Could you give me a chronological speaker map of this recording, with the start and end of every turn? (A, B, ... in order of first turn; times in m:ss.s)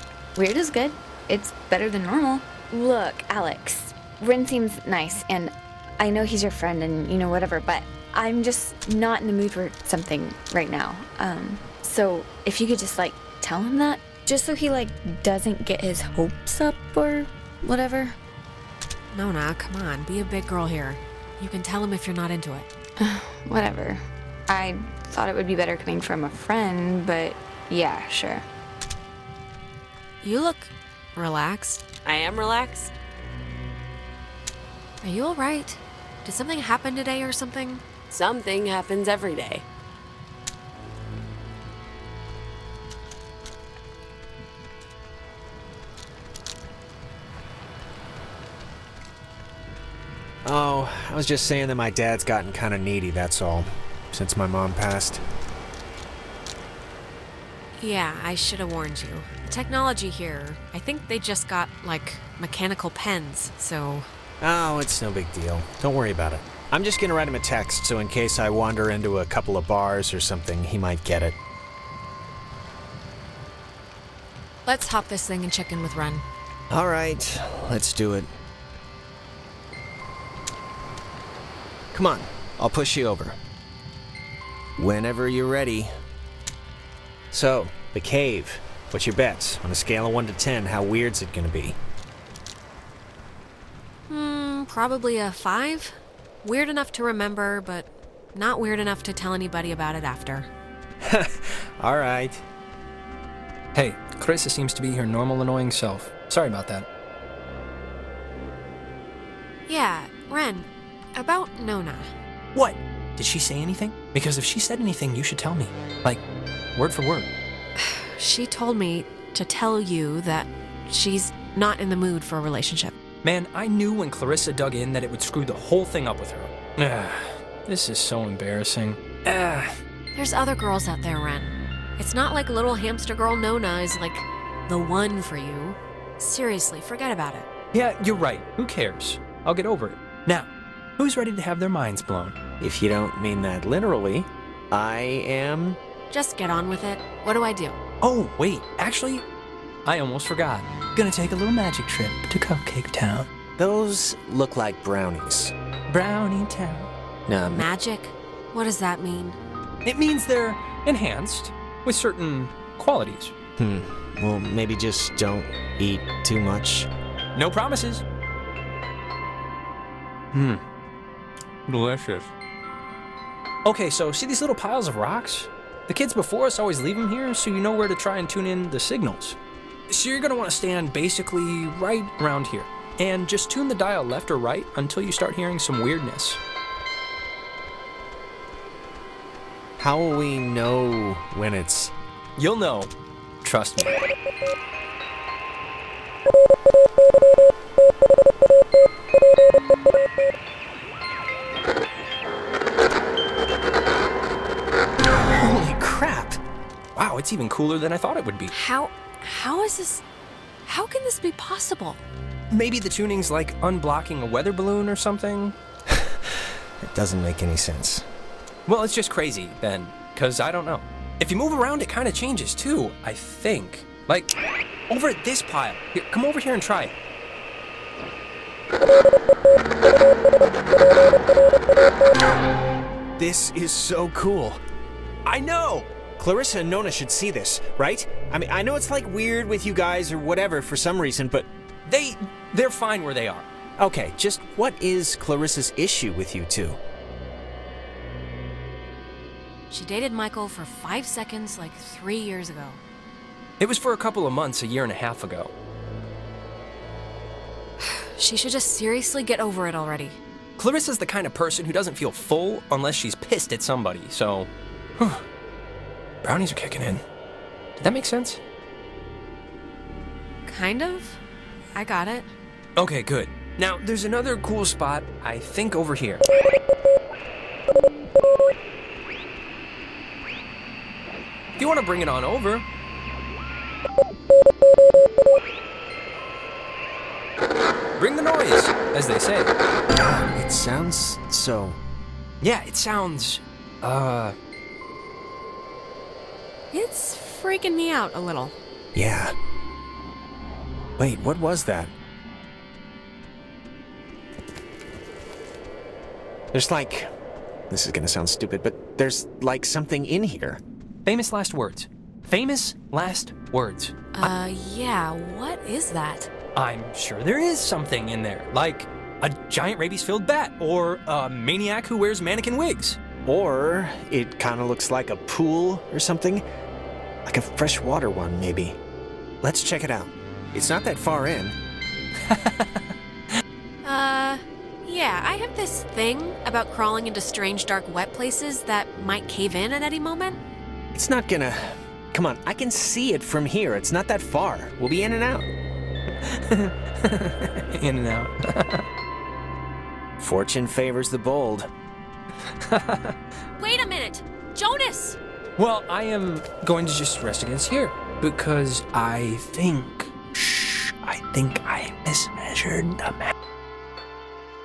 0:00.4-0:18.2 A
0:19.1-0:22.7 B
0:23.0-0:28.5 A
0:30.2-0:31.9 B
0:32.0-0:32.9 C
0:35.0-0:37.9 B
0:38.1-0:39.7 C
0:50.4-0:55.2 D
0:57.8-1:04.1 B
1:04.4-1:11.4 D
1:14.7-1:16.2 B
1:16.7-1:18.3 D
1:21.9-1:23.4 D
1:24.8-1:25.9 D
1:27.3-1:31.8 D
1:34.1-1:40.5 B
1:41.0-1:42.4 D
1:43.7-1:46.9 E
1:49.7-1:52.1 B
1:52.5-1:56.2 E
1:56.8-1:57.3 E
1:57.8-2:03.0 B
2:03.2-2:09.7 E
2:10.2-2:17.5 B
2:17.7-2:22.4 E
2:22.6-2:25.8 D
2:26.1-2:27.8 B
2:28.0-2:29.3 E
2:29.8-2:33.3 E
2:33.6-2:35.5 D
2:35.9-2:36.9 E
2:37.3-2:37.7 D
2:37.5-2:39.4 B
2:39.8-2:43.3 E
2:43.6-2:46.9 D
2:47.4-2:48.0 E
2:50.3-2:50.6 E
2:51.7-2:52.3 E
2:53.6-2:59.4 E
2:59.9-3:06.4 E
3:09.8-3:11.9 D
3:12.4-3:12.9 E
3:13.4-3:14.0 E
3:25.1-3:26.4 D
3:27.0-3:28.6 E
3:28.5-3:30.0 B
3:30.7-3:32.0 B
3:32.5-3:35.6 E
3:36.8-3:38.1 D
3:38.7-3:44.4 E
3:44.9-3:46.9 E
3:53.2-3:54.6 D
3:55.2-3:55.9 E
3:56.2-4:01.5 D
4:01.9-4:03.5 E
4:03.8-4:06.8 D
4:09.7-4:12.8 B
4:13.6-4:15.5 E
4:17.8-4:20.2 B
4:20.6-4:25.2 E
4:26.2-4:27.0 E
4:27.8-4:28.4 E
4:30.5-4:31.2 B
4:31.8-4:32.3 B
4:32.8-4:36.2 E
4:41.6-4:42.7 E
4:48.0-4:49.6 E
4:49.9-4:51.8 D
4:52.4-4:54.4 E
4:56.7-4:58.6 B
4:58.9-4:59.3 D
5:01.0-5:01.9 D
5:06.5-5:07.1 D
5:07.7-5:10.6 D
5:11.0-5:14.3 E
5:14.2-5:16.3 B
5:16.6-5:23.0 E
5:23.2-5:26.4 D
5:27.3-5:28.8 D
5:29.4-5:31.6 D
5:32.3-5:32.9 E
5:33.8-5:40.4 B
5:40.9-5:45.5 D
5:46.2-5:48.9 E
5:50.2-5:51.7 D
5:52.6-5:53.2 E
5:53.6-5:55.2 B
5:55.6-6:03.3 E